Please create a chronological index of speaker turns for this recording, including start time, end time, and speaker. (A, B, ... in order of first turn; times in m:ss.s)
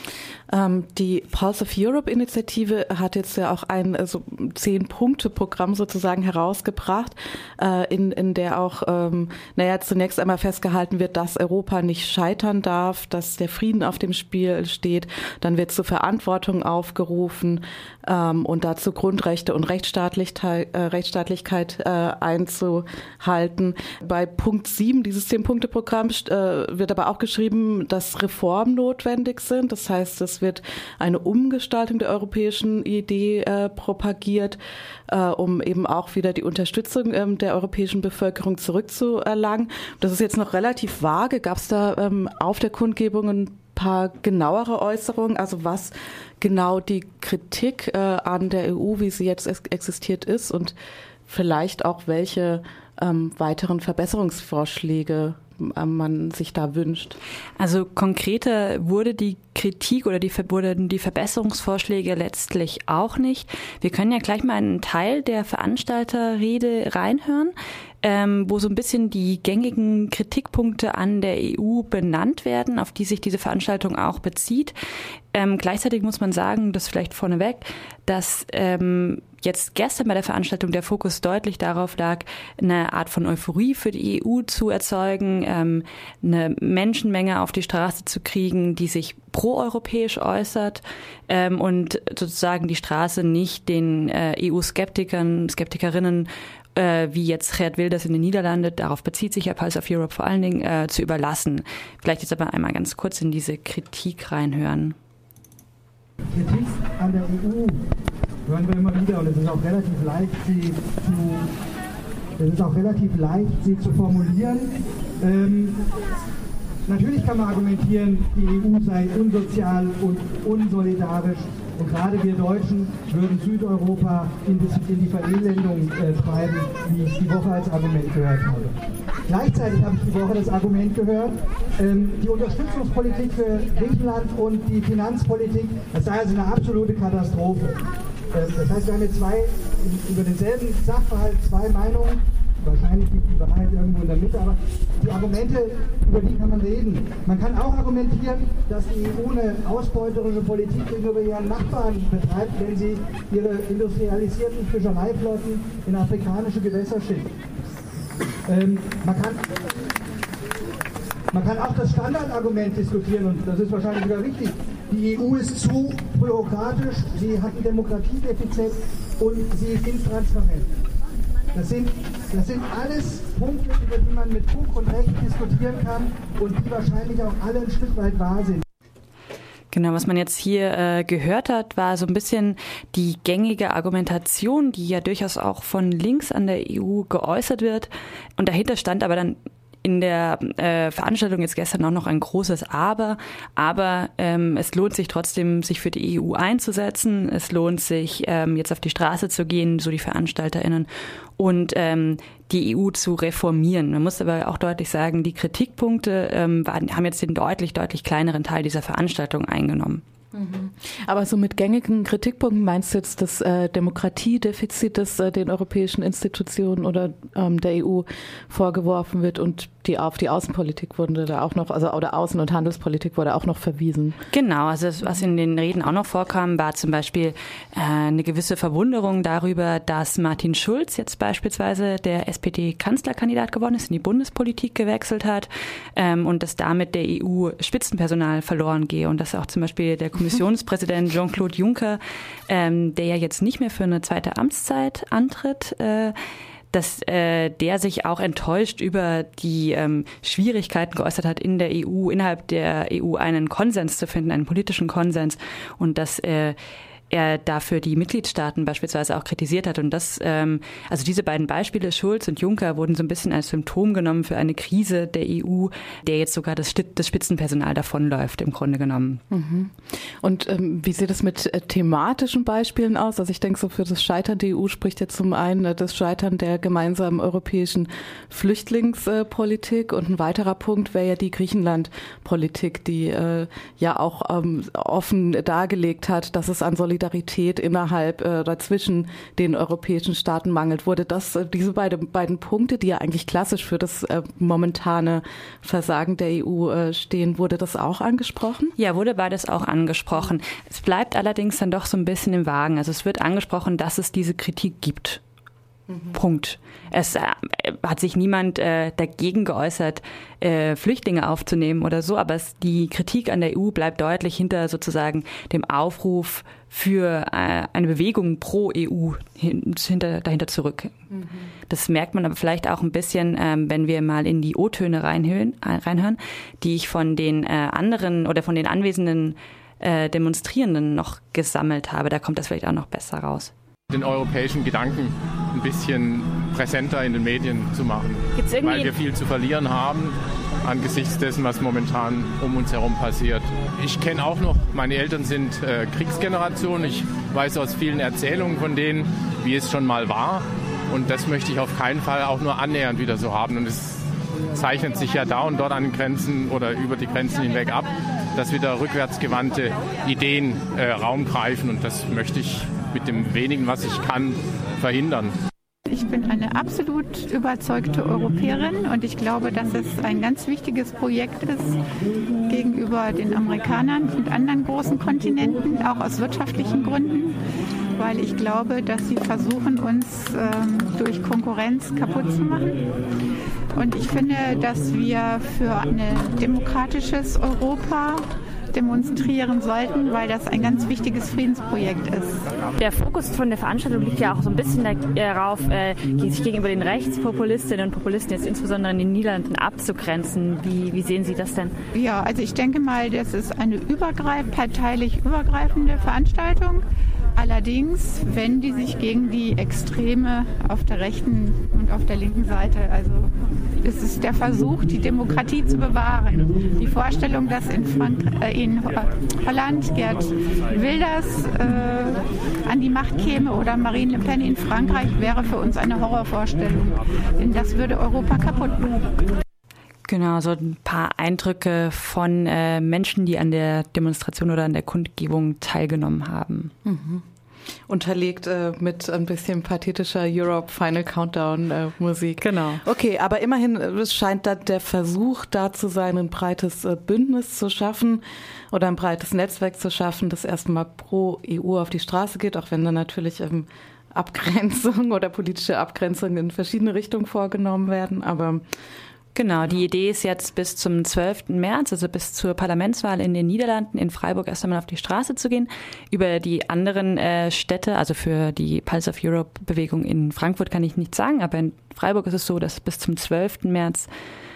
0:00.5-0:50.7 A
0:51.3-0:57.2 A
0:57.6-1:14.7 B
1:15.3-1:44.9 B
1:46.3-1:47.8 C
1:48.5-1:51.5 C
1:52.4-1:55.8 C
1:56.8-2:08.7 C
2:09.3-2:37.3 C
2:38.4-2:39.4 C
2:41.3-2:50.7 C
2:51.5-2:58.6 C
2:59.7-3:30.0 B
3:30.3-3:44.2 A
3:44.3-4:06.1 B
4:06.7-4:16.6 B
4:17.1-4:29.2 B
4:29.3-4:58.8 A
4:58.8-5:05.2 B
5:05.9-5:06.1 A
5:06.1-5:20.9 B
5:21.7-5:33.5 B
5:33.9-6:05.3 D
5:38.4-5:38.9 B
6:05.8-6:11.8 E
6:12.4-6:17.4 E
6:17.9-6:22.8 E
6:23.7-6:32.5 E
6:32.8-6:41.7 B
6:41.9-7:09.0 E
7:10.1-7:16.7 B
7:16.8-7:17.2 A
7:17.9-7:38.6 A
7:22.4-7:22.8 B
7:39.3-7:54.1 B